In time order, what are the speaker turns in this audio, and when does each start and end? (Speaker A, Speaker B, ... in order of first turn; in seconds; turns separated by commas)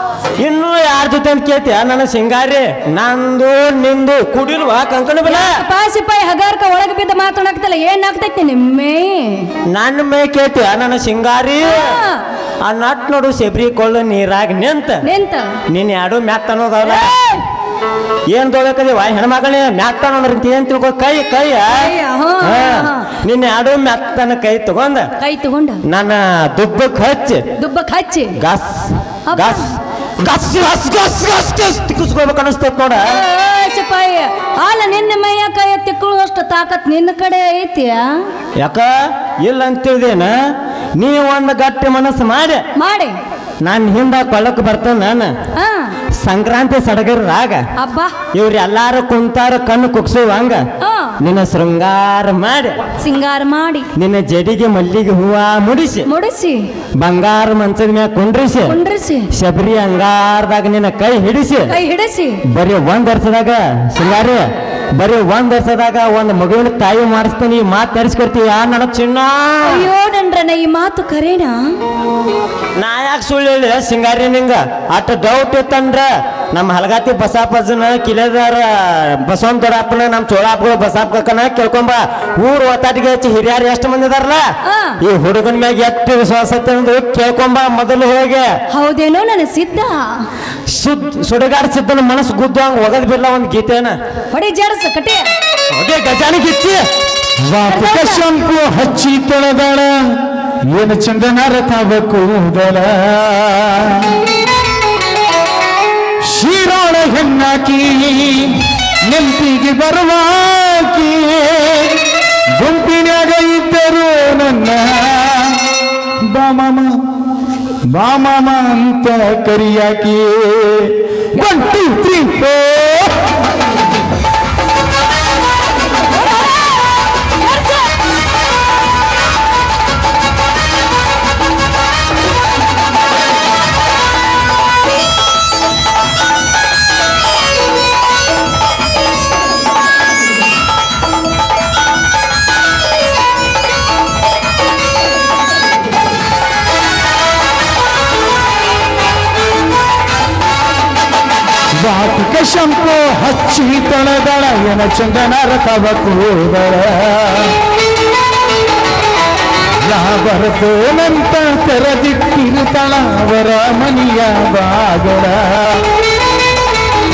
Speaker A: 0.4-5.6, Speaker B: 5.3-9.5, Speaker A: 9.7-12.0, Speaker B: 11.7-12.2, Speaker A: 12.6-15.0, Speaker B: 15.0-15.6, Speaker A: 15.7-17.1, Speaker B: 16.9-17.4, Speaker A: 18.3-21.8, Speaker B: 21.8-23.1, Speaker A: 22.4-25.1, Speaker B: 25.2-25.8, Speaker A: 25.9-27.4, Speaker B: 27.6-28.4, Speaker A: 28.4-33.1, Speaker B: 29.3-29.6, Speaker B: 33.1-38.2, Speaker A: 38.6-38.9, Speaker A: 39.4-40.3, Speaker A: 41.0-42.6, Speaker B: 42.8-43.2, Speaker A: 43.6-45.3, Speaker B: 45.5-45.9, Speaker A: 46.2-47.6, Speaker B: 47.8-48.1, Speaker A: 48.3-50.6, Speaker B: 50.8-51.2, Speaker A: 51.2-52.8, Speaker B: 53.0-53.9, Speaker A: 54.0-56.1, Speaker B: 56.1-56.7, Speaker A: 57.0-58.8, Speaker B: 58.7-59.3, Speaker A: 59.4-61.7, Speaker B: 61.7-62.4, Speaker A: 62.5-64.5, Speaker A: 65.0-69.8, Speaker B: 69.7-71.7, Speaker A: 72.8-84.4, Speaker B: 84.7-85.0, Speaker A: 85.0-88.5, Speaker B: 88.7-90.2, Speaker A: 90.7-94.0, Speaker B: 94.3-95.3, Speaker A: 95.7-96.8, Speaker C: 97.4-100.0, Speaker B: 97.7-98.2, Speaker C: 100.7-104.2, Speaker C: 106.2-112.0, Speaker C: 112.6-115.7, Speaker C: 116.2-117.0, Speaker C: 117.9-123.2, Speaker C: 151.8-157.6, Speaker C: 159.8-165.8